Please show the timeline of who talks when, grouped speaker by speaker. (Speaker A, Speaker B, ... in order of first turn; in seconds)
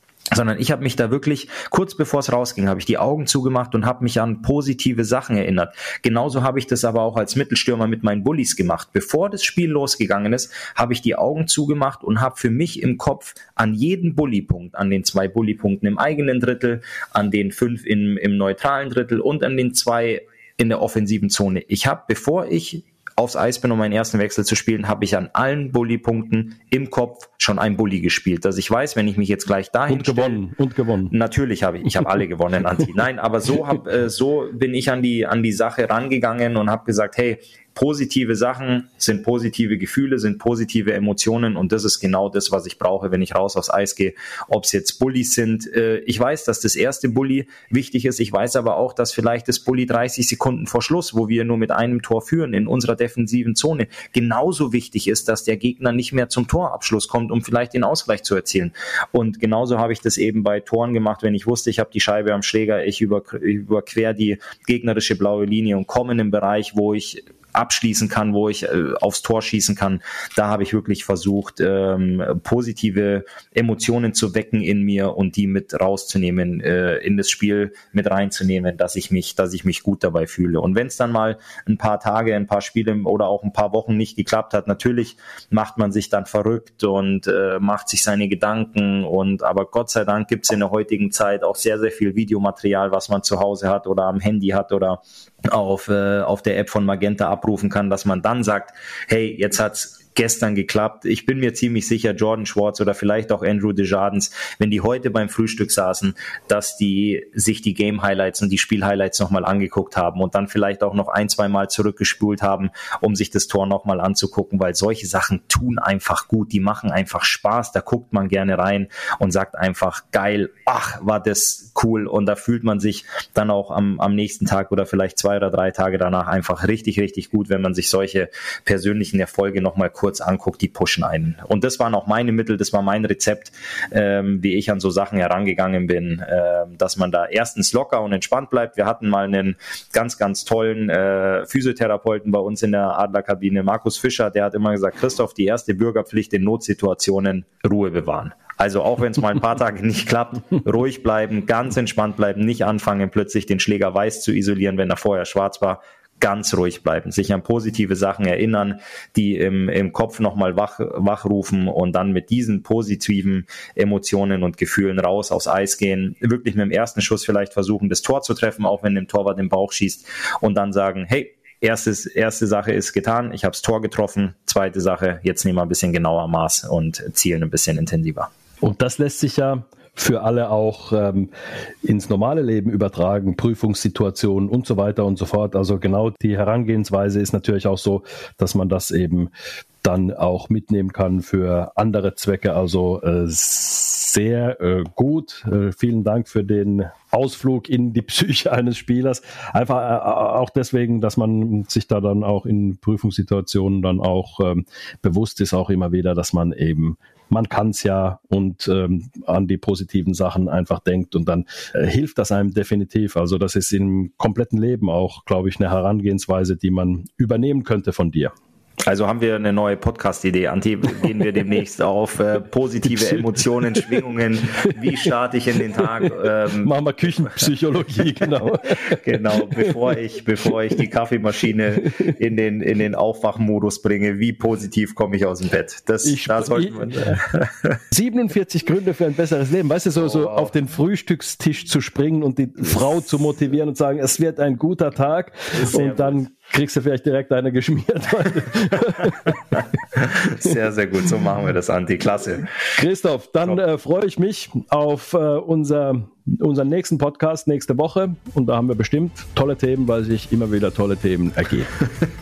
Speaker A: 0.3-30.4, 31.1-178.3, 218.8-227.5, 228.8-237.8, 240.0-240.5, 245.6-246.2, 249.5-252.5
Speaker B: 29.9-31.1, 178.6-181.3, 181.8-189.3, 189.8-218.3, 226.6-229.7, 236.0-237.2, 237.9-249.4, 252.8-261.7